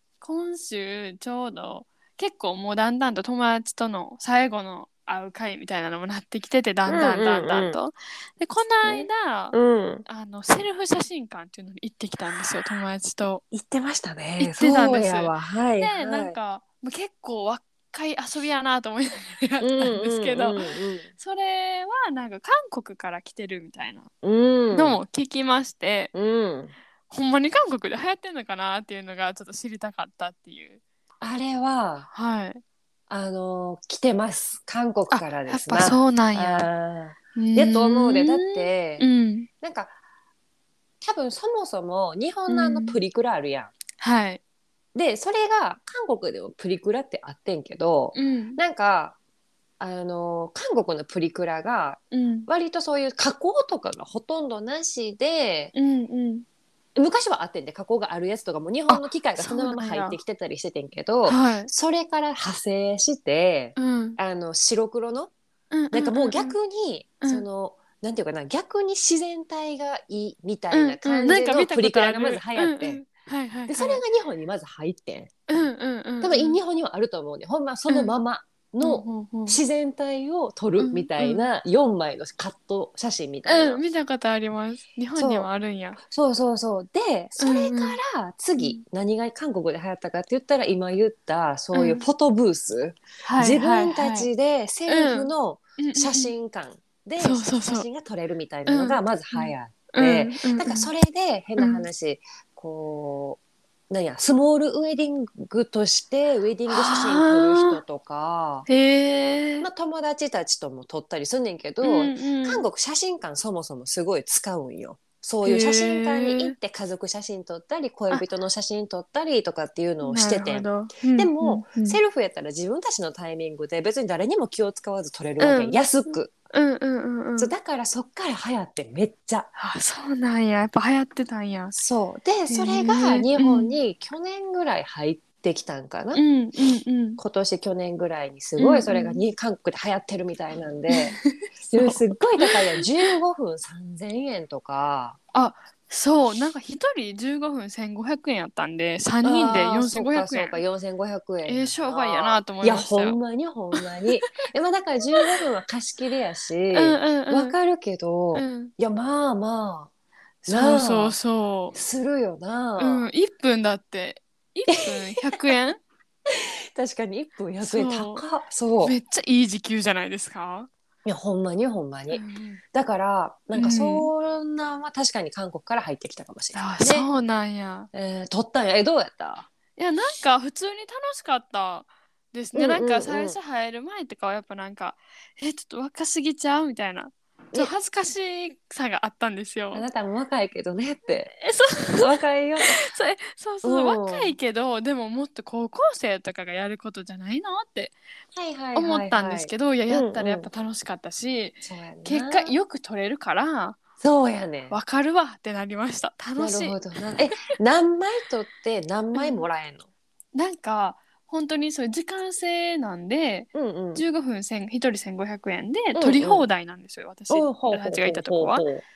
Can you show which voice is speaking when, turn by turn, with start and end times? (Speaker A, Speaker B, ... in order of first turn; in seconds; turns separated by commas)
Speaker A: 0.2-13.4, Speaker B: 6.9-7.8, Speaker B: 8.8-10.0, Speaker B: 13.5-16.3, Speaker A: 14.4-20.6, Speaker B: 19.6-21.1, Speaker A: 21.1-24.1, Speaker B: 24.2-25.0, Speaker A: 24.7-26.1, Speaker B: 26.1-26.7, Speaker A: 27.1-30.8, Speaker B: 31.2-32.1, Speaker A: 32.1-32.6, Speaker B: 33.1-39.0, Speaker A: 35.1-36.7, Speaker A: 37.4-39.5, Speaker B: 39.6-39.9, Speaker B: 41.0-43.7, Speaker A: 42.5-43.0, Speaker A: 44.0-44.4, Speaker B: 44.9-49.1, Speaker A: 48.1-48.6, Speaker B: 49.8-55.7, Speaker A: 52.1-52.5, Speaker A: 55.7-56.4, Speaker B: 56.9-65.3, Speaker A: 58.9-60.2, Speaker A: 61.2-61.7, Speaker A: 63.8-64.2, Speaker A: 65.7-66.6, Speaker B: 65.9-73.0, Speaker A: 70.7-74.0, Speaker B: 73.7-75.3, Speaker A: 75.5-76.6, Speaker B: 76.2-83.8, Speaker A: 78.8-79.6, Speaker A: 80.8-81.4, Speaker A: 83.4-86.0, Speaker B: 85.2-85.5, Speaker B: 86.0-103.4, Speaker A: 87.4-88.0, Speaker A: 91.7-92.0, Speaker A: 93.2-94.3, Speaker A: 94.9-96.3, Speaker A: 97.2-97.9, Speaker A: 98.7-100.9, Speaker A: 101.6-101.8, Speaker B: 103.9-108.7, Speaker A: 106.7-107.8, Speaker A: 108.7-109.7, Speaker B: 109.6-126.3, Speaker A: 111.8-112.7, Speaker A: 115.4-116.5, Speaker A: 120.0-122.0, Speaker A: 125.4-125.8, Speaker A: 126.5-127.5, Speaker B: 127.4-129.5, Speaker A: 129.6-131.8, Speaker B: 131.8-136.2, Speaker A: 132.5-133.8, Speaker A: 136.1-137.2, Speaker B: 137.2-145.2, Speaker A: 138.6-139.2, Speaker A: 140.9-141.2, Speaker A: 141.8-143.1, Speaker A: 145.3-150.6, Speaker B: 149.2-159.9, Speaker A: 151.4-153.2, Speaker A: 156.7-157.6, Speaker A: 158.3-158.7, Speaker A: 160.4-161.8, Speaker B: 160.5-161.1, Speaker B: 161.7-163.1, Speaker A: 162.8-165.8, Speaker B: 164.7-165.2, Speaker B: 166.3-168.9, Speaker A: 167.6-168.2, Speaker A: 168.8-170.7, Speaker B: 171.0-172.2, Speaker A: 172.1-172.6, Speaker B: 172.7-177.1, Speaker A: 173.5-174.1, Speaker A: 176.5-177.9, Speaker B: 177.9-179.5, Speaker A: 179.8-189.8, Speaker B: 182.5-183.4, Speaker B: 189.7-191.3, Speaker A: 191.4-197.9, Speaker B: 192.0-192.8, Speaker B: 193.6-194.3, Speaker B: 198.3-200.5, Speaker A: 198.7-203.8, Speaker B: 201.6-202.6, Speaker B: 204.0-204.8, Speaker A: 204.7-206.8, Speaker B: 206.4-209.8, Speaker A: 209.1-209.4, Speaker A: 210.3-218.7, Speaker B: 213.5-214.0, Speaker B: 215.9-216.4, Speaker B: 217.3-218.8